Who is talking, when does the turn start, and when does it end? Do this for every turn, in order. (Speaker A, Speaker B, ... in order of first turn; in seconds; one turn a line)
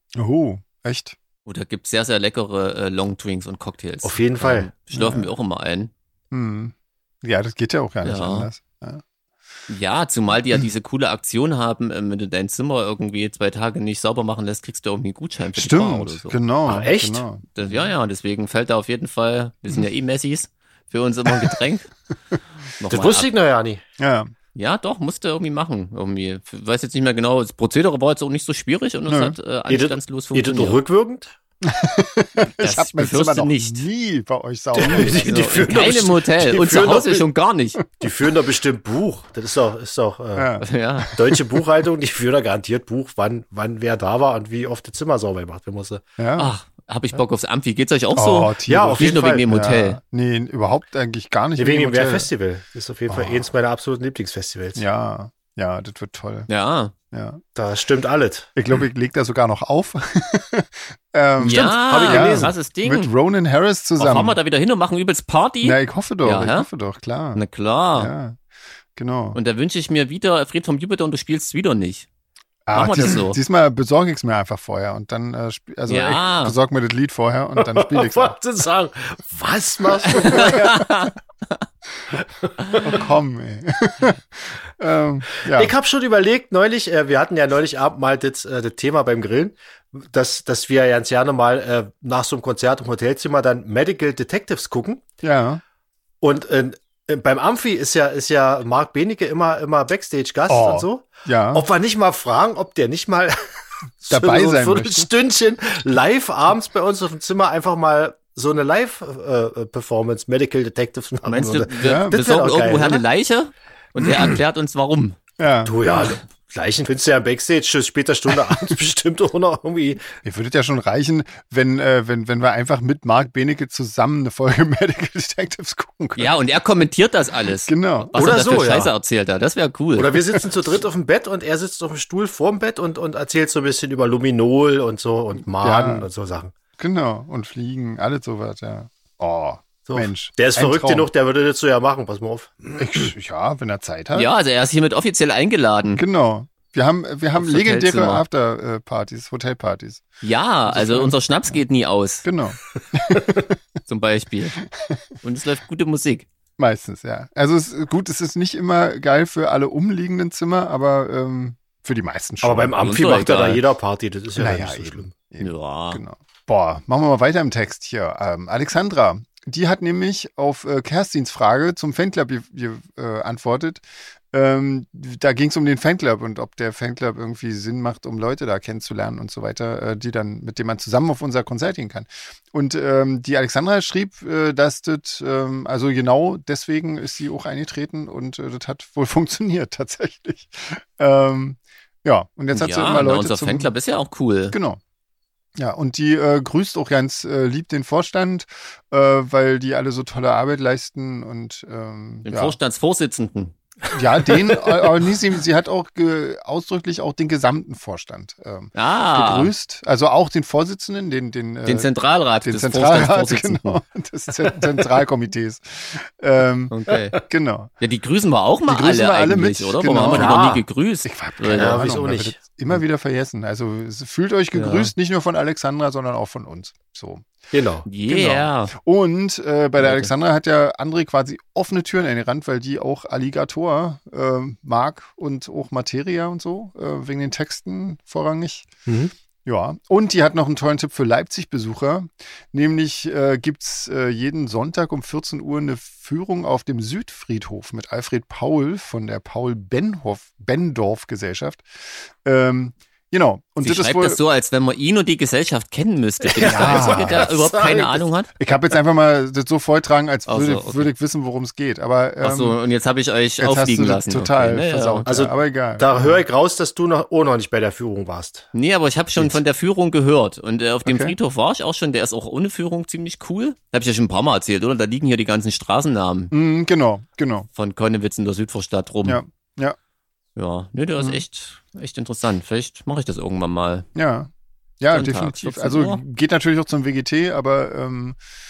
Speaker A: 0.1-1.1
Speaker B: 1.4-5.9
Speaker C: 4.0-4.7
Speaker A: 4.9-5.3
Speaker A: 6.3-9.0
Speaker B: 8.0-8.5
Speaker B: 9.7-16.4
Speaker A: 15.5-17.9
Speaker C: 16.6-17.2
Speaker B: 17.5-21.9
Speaker B: 22.8-23.3
Speaker C: 22.9-23.8
Speaker A: 24.0-24.3
Speaker B: 24.5-30.8
Speaker A: 29.1-29.4
Speaker C: 29.7-31.3
Speaker A: 31.6-35.3
Speaker B: 32.6-33.8
Speaker C: 34.7-37.2
Speaker B: 35.1-37.8
Speaker C: 38.0-40.5
Speaker A: 40.3-41.4
Speaker B: 40.6-41.1
Speaker C: 41.1-46.0
Speaker A: 46.2-46.5
Speaker B: 46.4-50.0
Speaker A: 48.1-52.3
Speaker C: 48.7-49.4
Speaker C: 51.6-54.8
Speaker A: 53.1-53.5
Speaker A: 54.8-56.5
Speaker B: 56.5-56.9
Speaker A: 57.1-57.4
Speaker C: 57.5-58.5
Speaker A: 58.5-64.4
Speaker B: 61.4-63.1
Speaker C: 61.4-62.5
Speaker B: 64.0-66.7
Speaker A: 65.6-67.4
Speaker B: 67.3-68.1
Speaker A: 68.0-68.4
Speaker A: 69.0-69.4
Speaker B: 69.3-72.1
Speaker A: 72.7-78.4
Speaker B: 72.7-73.4
Speaker B: 75.9-76.5
Speaker C: 77.5-80.7
Speaker B: 80.2-81.1
Speaker A: 80.3-80.8
Speaker C: 82.6-82.9
Speaker A: 82.8-85.7
Speaker C: 85.4-95.0
Speaker A: 95.2-95.6
Speaker C: 96.2-103.5
Speaker A: 100.5-101.7
Speaker C: 104.0-113.0
Speaker A: 104.1-105.1
Speaker B: 111.2-115.2
Speaker A: 111.8-112.2
Speaker C: 114.1-114.3
Speaker A: 115.4-115.8
Speaker C: 115.6-120.0
Speaker A: 120.2-126.3
Speaker B: 126.2-130.2
Speaker A: 127.6-128.4
Speaker C: 128.1-128.9
Speaker C: 129.9-136.5
Speaker A: 135.6-136.1
Speaker A: 136.8-141.1
Speaker C: 139.9-143.1
Speaker A: 142.8-144.3
Speaker B: 144.1-146.0
Speaker A: 145.9-150.1
Speaker B: 147.3-148.2
Speaker B: 150.2-152.3
Speaker A: 150.7-151.6
Speaker A: 152.2-153.6
Speaker B: 153.8-154.6
Speaker A: 154.7-155.0
Speaker B: 155.2-156.3
Speaker A: 156.6-162.8
Speaker C: 162.4-165.1
Speaker B: 162.8-163.6
Speaker A: 164.3-193.7
Speaker B: 165.4-166.0
Speaker B: 192.5-194.6
Speaker A: 194.5-194.8
Speaker A: 195.6-202.6
Speaker B: 202.2-203.5
Speaker A: 203.9-211.9
Speaker B: 208.7-209.5
Speaker B: 211.6-213.8
Speaker A: 212.4-217.7
Speaker B: 216.7-217.2
Speaker B: 217.8-221.8
Speaker A: 218.7-227.3
Speaker C: 220.1-220.6
Speaker C: 221.5-222.4
Speaker B: 224.5-224.9
Speaker C: 227.5-227.8
Speaker B: 227.8-228.7
Speaker A: 228.1-238.7
Speaker B: 229.8-230.1
Speaker C: 238.9-239.1
Speaker A: 239.4-254.2
Speaker B: 253.6-258.3
Speaker C: 256.2-258.1
Speaker A: 256.4-257.3
Speaker A: 258.4-262.6
Speaker B: 260.3-260.9
Speaker B: 262.2-265.1
Speaker A: 263.4-266.2
Speaker C: 265.1-268.5
Speaker B: 268.5-276.3
Speaker A: 270.8-271.1
Speaker A: 276.3-277.5
Speaker B: 277.5-279.2
Speaker A: 279.0-279.8
Speaker B: 280.4-283.9
Speaker A: 281.0-281.2
Speaker A: 283.9-288.2
Speaker B: 284.9-286.0